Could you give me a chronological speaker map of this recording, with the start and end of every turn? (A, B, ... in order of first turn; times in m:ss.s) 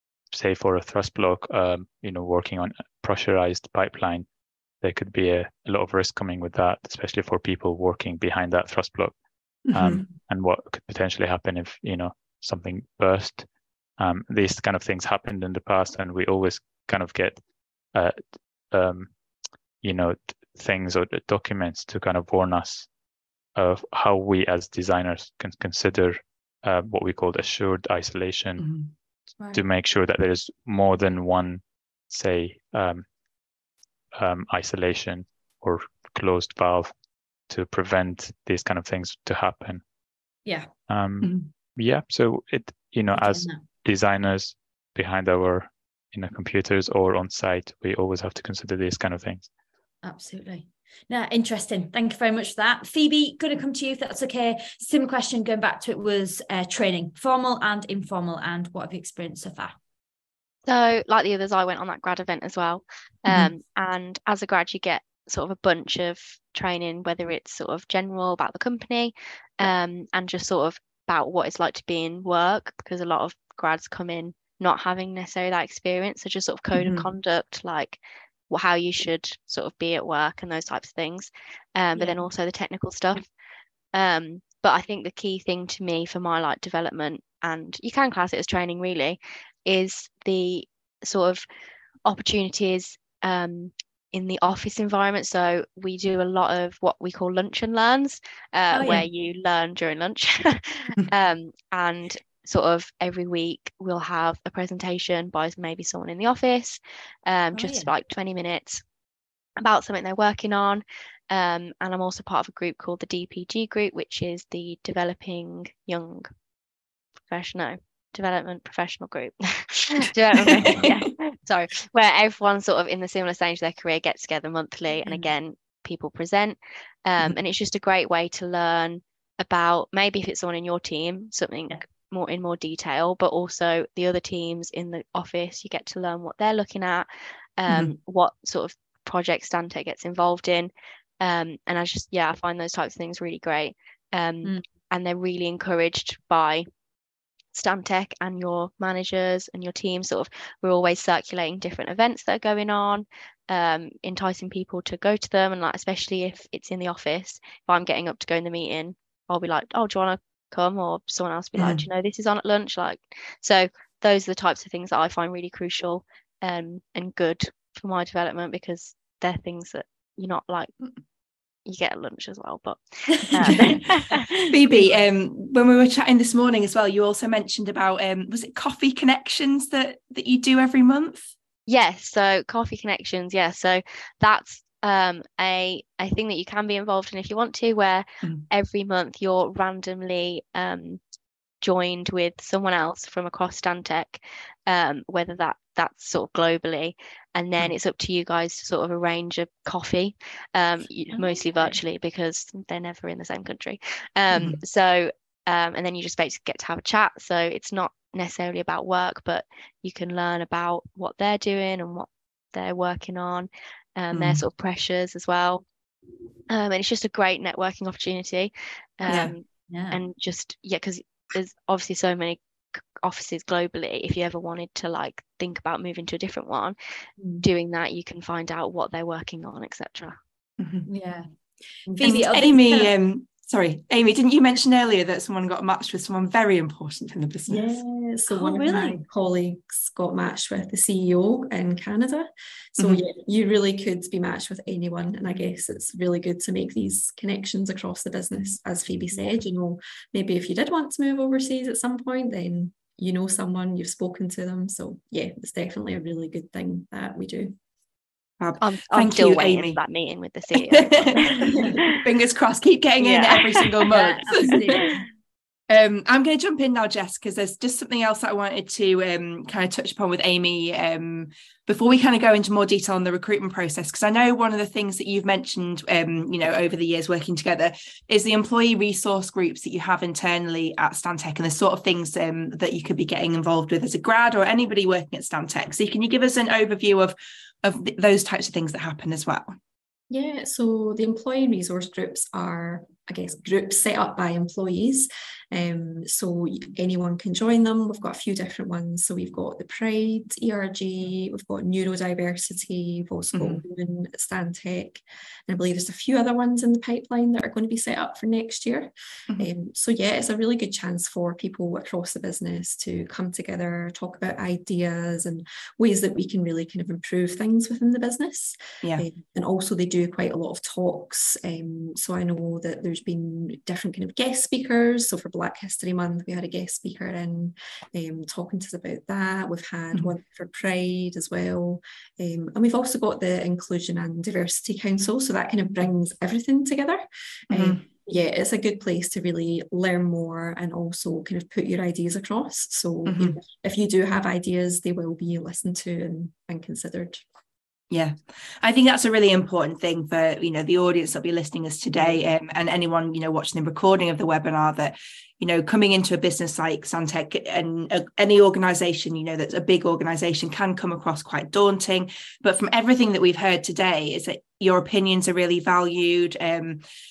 0:00.3-0:04.2 A
0:04.8-0:09.1 A
0:09.6-0:10.1 B
0:09.7-0:13.4 A
0:14.0-0:17.4 A
0:18.7-0:19.1 A
0:19.8-0:22.9 A
0:23.5-0:28.7 A
0:28.6-0:28.9 B
0:29.5-0:33.0 A
0:34.1-0:36.9 A
0:37.5-0:39.8 A
0:40.9-0:49.5 A
0:41.2-0:41.5 B
0:43.1-0:43.6 C
0:50.0-0:59.7 C
1:00.6-1:23.3 D
1:16.7-1:17.1 B
1:22.0-1:22.2 C
1:23.9-1:31.4 D
1:32.0-1:48.8 D
1:38.7-1:39.0 C
1:47.5-1:47.9 C
1:49.6-1:56.3 D
1:57.3-2:26.6 D
2:00.5-2:01.0 B
2:17.7-2:17.9 B
2:27.5-2:50.7 D
2:41.6-2:41.8 B
2:51.6-2:54.9 D
2:53.3-2:53.8 B
2:54.5-3:01.3 B
3:01.7-3:11.0 D
3:11.6-3:35.6 D
3:21.2-3:21.7 C
3:24.3-3:24.6 B
3:34.1-3:34.4 B
3:36.5-3:42.4 D
3:39.0-3:39.3 B
3:39.7-3:40.0 C
3:43.0-3:46.8 D
3:47.4-3:50.2 D
3:50.6-3:50.9 B
3:50.8-3:51.3 C
3:52.0-3:52.9 C
3:52.0-3:57.7 B
3:57.5-4:17.6 E
3:58.3-3:59.0 C
4:02.8-4:03.0 B
4:18.4-4:19.8 B
4:18.6-4:22.1 D
4:20.6-4:24.8 B
4:21.4-4:21.7 C
4:23.0-4:23.9 D
4:23.9-4:25.0 C
4:25.7-4:49.6 B
4:50.1-5:47.2 E
5:03.3-5:03.6 B
5:37.5-5:37.8 B
5:43.0-5:43.4 B
5:47.9-6:06.8 B